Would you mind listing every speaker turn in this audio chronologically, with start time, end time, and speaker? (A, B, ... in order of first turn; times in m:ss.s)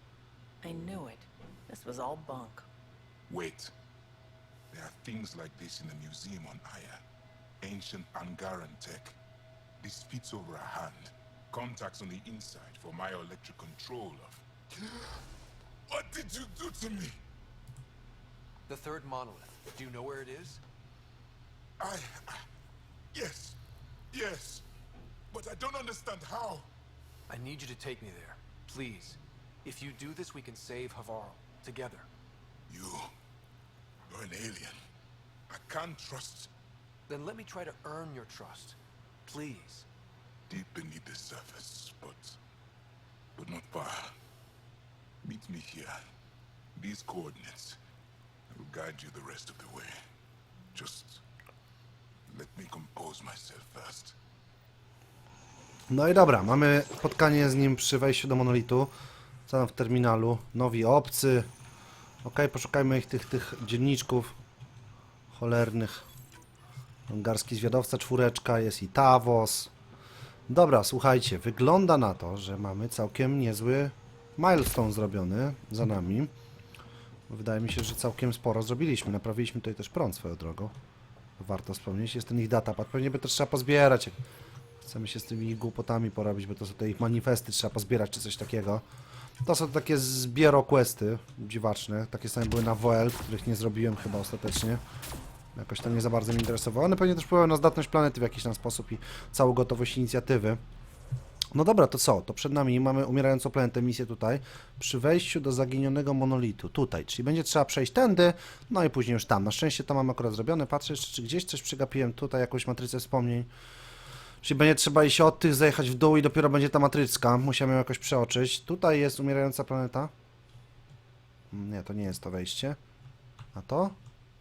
0:00.6-0:02.7 A
0:03.3-0:03.7 B
0:04.7-0:07.0 B
0:07.6-0:09.2 B
0:09.8-0:15.2 B
0:15.9-0:17.2 B
0:18.7-0:20.6 C
0:21.8-0:22.4 B
0:23.1-0:23.6 B
0:24.1-0:24.7 B
0:25.3-0:26.7 B
0:27.3-0:32.1 C
0:32.7-0:33.1 B
0:34.1-0:34.8 B
0:35.5-0:36.5 B
0:37.1-0:39.9 C
0:40.5-0:42.4 B
0:43.4-0:44.2 B
0:45.2-0:46.0 B
0:46.8-0:47.8 B
0:48.5-0:50.0 B
0:50.7-0:51.2 B
0:52.3-0:54.2 B
0:55.9-0:58.9 D
0:59.5-1:01.5 D
1:02.2-1:04.4 D
1:05.3-1:06.0 D
1:07.1-1:09.7 D
1:10.5-1:16.3 D
1:17.3-1:20.7 D
1:21.4-1:24.2 D
1:24.8-1:28.8 D
1:29.4-1:34.8 D
1:35.6-1:40.6 D
1:41.5-1:53.5 D
1:54.4-2:00.1 D
2:01.5-2:02.8 D
2:03.5-2:04.0 D